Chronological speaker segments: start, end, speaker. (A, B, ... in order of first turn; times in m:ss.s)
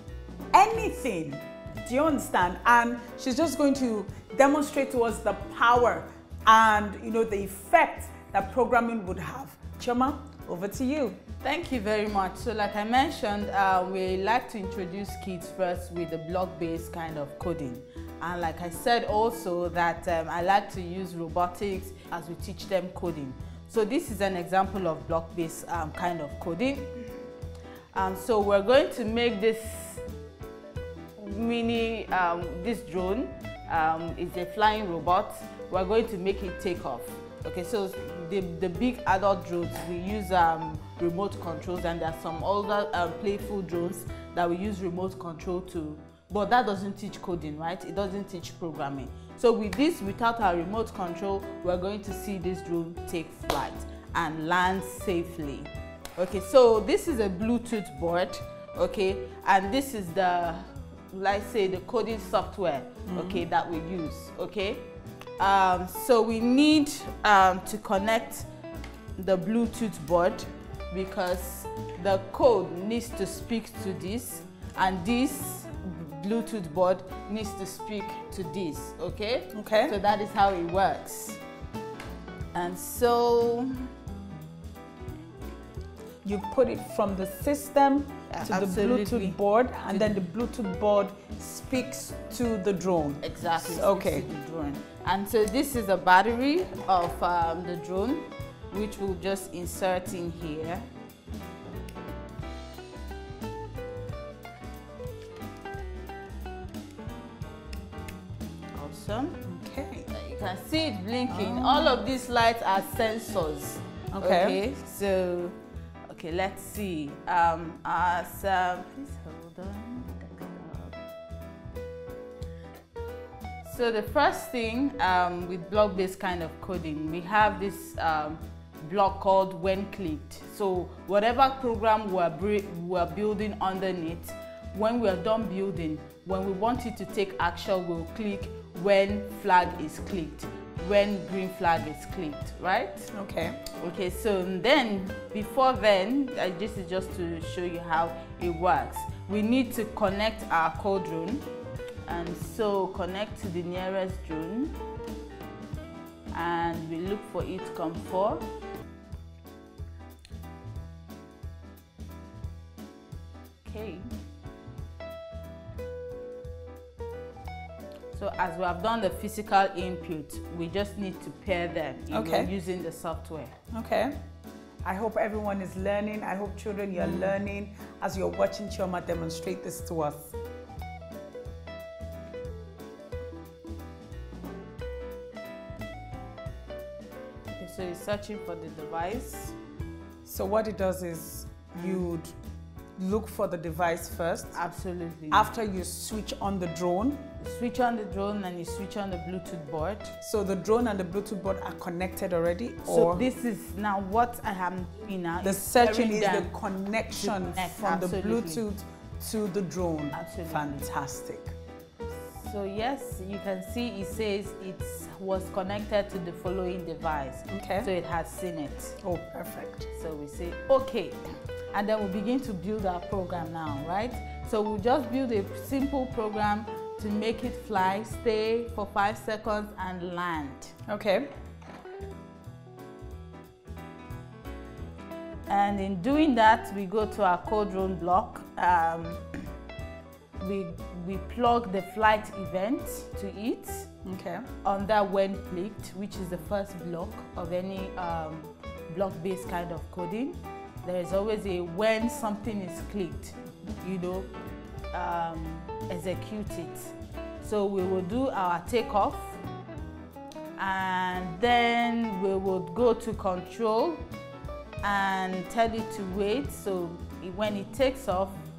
0:00.5-0:11.2 A
0:11.4-0:26.9 B
0:27.9-0:30.0 B
0:31.2-1:04.9 B
1:03.0-1:03.4 A
1:05.4-1:08.5 B
1:09.2-1:21.4 B
1:19.5-1:20.0 A
1:22.5-1:23.8 B
1:26.2-1:34.3 A
1:28.3-1:30.2 B
1:33.2-1:40.9 B
1:48.7-1:49.4 B
1:49.4-1:50.1 A
1:50.1-2:01.0 B
1:51.3-1:52.0 A
1:54.1-1:54.6 A
2:03.6-2:23.1 B
2:23.1-2:23.6 A
2:23.8-2:31.5 B
2:32.0-2:34.8 B
2:36.3-2:38.5 B
2:43.6-2:44.1 B
2:48.1-2:53.6 B
2:52.1-2:52.5 A
2:53.7-2:54.2 A
2:54.8-3:00.3 A
2:57.0-2:57.3 B
3:07.5-3:09.5 B
3:10.2-3:12.4 A
3:11.7-3:12.1 B
3:13.0-3:14.6 A
3:14.5-3:15.5 B
3:15.3-3:17.3 A
3:17.4-3:20.2 B
3:20.2-3:23.2 A
3:22.8-3:26.5 B
3:25.4-3:31.5 A
3:27.2-3:28.6 B
3:30.1-3:30.8 B
3:32.1-3:39.0 B
3:37.5-3:37.9 A
3:39.0-3:39.9 A
3:39.9-3:50.8 B
3:50.9-3:51.3 A
3:55.5-3:59.2 B
4:00.4-4:03.9 B
4:04.0-4:04.5 A
4:04.6-4:14.3 B
4:14.9-4:19.4 B
4:20.6-4:24.1 B
4:24.8-4:28.4 B